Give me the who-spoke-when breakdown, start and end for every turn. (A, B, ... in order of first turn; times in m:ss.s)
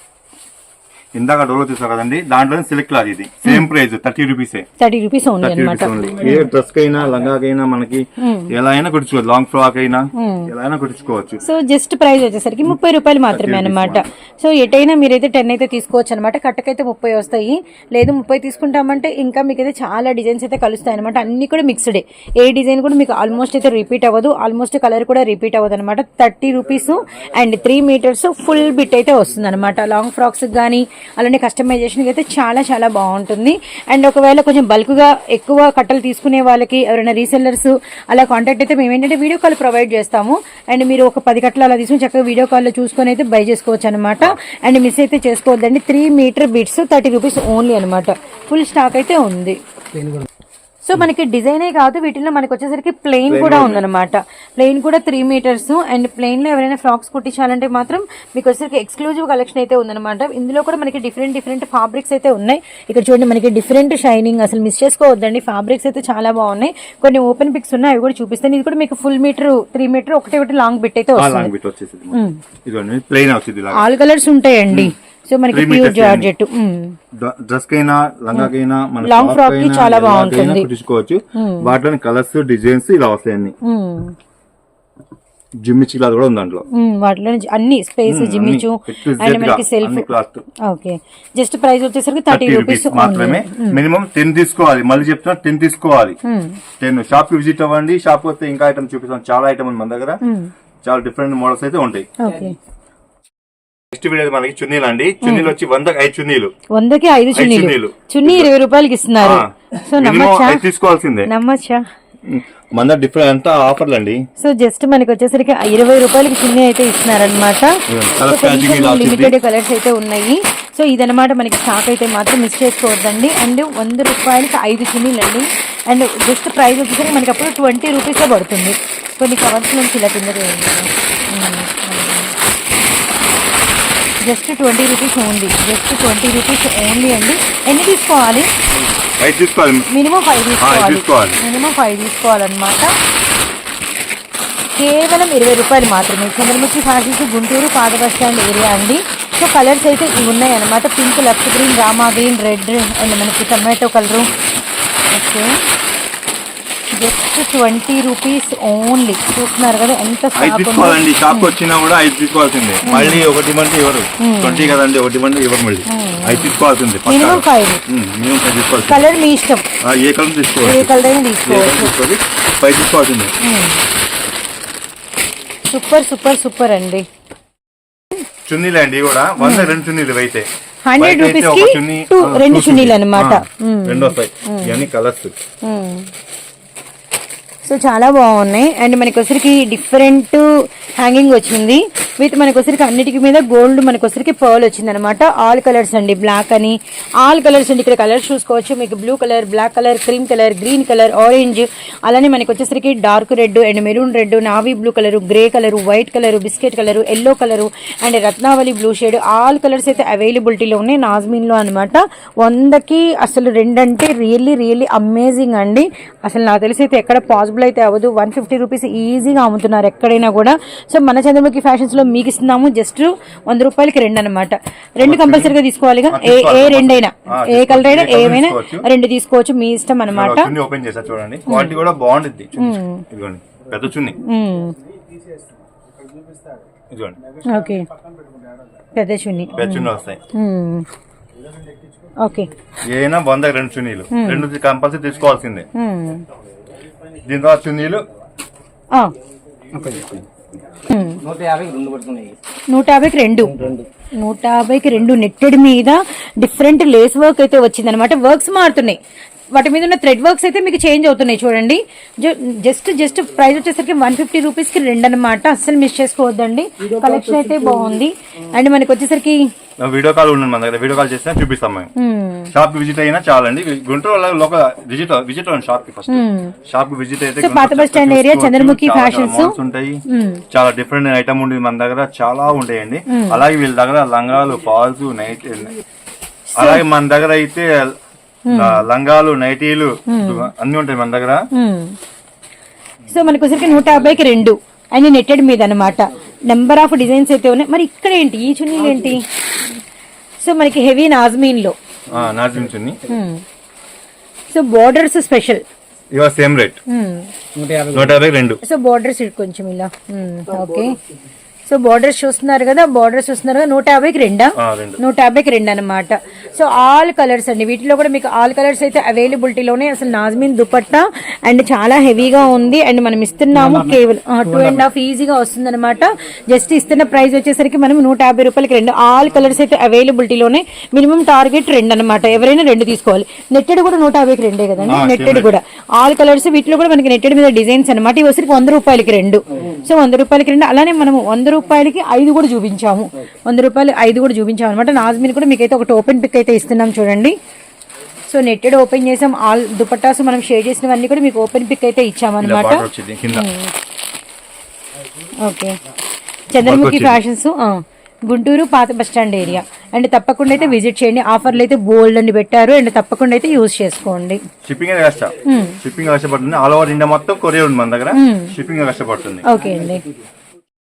0:01.2-0:04.7 A
0:04.8-0:06.5 B
0:05.4-0:11.4 A
0:08.2-0:08.5 B
0:10.2-0:10.5 B
0:11.4-0:49.6 B
0:13.3-0:14.0 A
0:50.8-1:11.5 B
0:53.3-0:53.8 A
1:11.2-1:13.8 A
1:13.7-1:16.9 B
1:15.5-1:16.3 A
1:17.2-1:23.6 A
1:19.0-1:20.7 B
1:21.4-1:21.7 B
1:23.6-1:24.2 B
1:25.6-1:26.7 A
1:26.7-1:30.1 B
1:28.1-1:30.4 A
1:30.6-1:33.8 B
1:32.3-1:36.2 A
1:36.2-1:36.6 B
1:36.8-1:40.2 A
1:40.2-1:40.5 B
1:40.8-1:42.1 A
1:42.2-1:42.6 B
1:43.9-1:46.5 A
1:45.2-1:45.5 B
1:46.8-1:50.6 B
1:47.3-1:48.5 A
1:49.2-1:51.3 A
1:51.3-1:51.8 B
1:52.3-1:54.2 A
1:54.4-2:12.3 B
1:57.9-1:59.3 A
2:14.2-2:18.5 B
2:19.2-2:19.9 A
2:19.9-2:22.9 B
2:20.6-2:21.4 A
2:24.8-2:34.3 B
2:35.1-2:35.6 B
2:36.9-2:41.5 B
2:40.4-2:49.0 A
2:42.8-2:43.2 B
2:44.2-2:44.8 B
2:45.9-2:46.5 B
2:47.1-2:47.8 B
2:48.9-2:49.6 B
2:49.8-2:50.9 A
2:50.6-2:51.9 B
2:51.5-2:53.3 A
2:53.4-2:53.8 B
2:55.7-2:57.0 B
2:58.5-3:00.5 A
2:59.4-2:59.7 B
3:00.9-3:04.8 B
3:01.0-3:05.4 A
3:05.6-3:06.1 B
3:07.7-3:50.5 B
3:45.0-3:45.6 A
3:46.1-3:48.9 A
3:50.1-3:54.2 A
3:51.5-3:51.8 B
3:52.6-3:53.0 B
3:54.2-3:54.8 B
3:56.9-3:57.2 A
3:57.4-3:57.9 B
3:59.0-4:00.9 B
3:59.5-4:00.2 A
4:02.2-4:02.5 B
4:02.9-4:05.7 A
4:04.1-4:04.5 B
4:05.8-4:06.3 B
4:07.2-4:08.0 A
4:09.7-4:10.3 C
4:10.9-4:11.2 B
4:11.2-4:12.4 C
4:12.7-4:13.6 B
4:13.5-4:13.9 C
4:14.2-4:19.0 B
4:19.5-4:29.4 B
4:29.8-4:31.9 A
4:32.0-4:32.5 B
4:32.5-4:40.0 A
4:36.1-4:36.5 B
4:37.4-4:39.6 B
4:40.1-4:40.4 B
4:40.5-4:45.8 A
4:43.1-4:43.4 B
4:46.6-4:46.8 B
4:46.6-4:48.0 A
4:48.5-4:48.8 B
4:48.5-4:51.4 A
4:50.1-4:50.5 B
4:51.5-4:52.0 B
4:53.1-4:59.2 B
5:00.4-5:01.8 B
5:02.1-5:03.0 A
5:03.1-5:03.4 B
5:04.5-5:05.6 B
5:06.1-5:06.8 A
5:06.9-5:07.3 B
5:07.6-5:08.1 C
5:07.9-5:08.6 A
5:08.6-5:11.0 B
5:11.7-5:47.4 B
5:14.6-5:15.0 A
5:34.8-5:35.5 A
5:48.3-5:53.7 B
5:52.4-5:53.5 A
5:55.4-5:55.8 B
5:56.5-6:04.4 B
5:56.6-5:57.2 A
6:04.6-6:09.5 A
6:05.5-6:05.8 B
6:08.1-6:08.5 B
6:09.4-6:10.1 B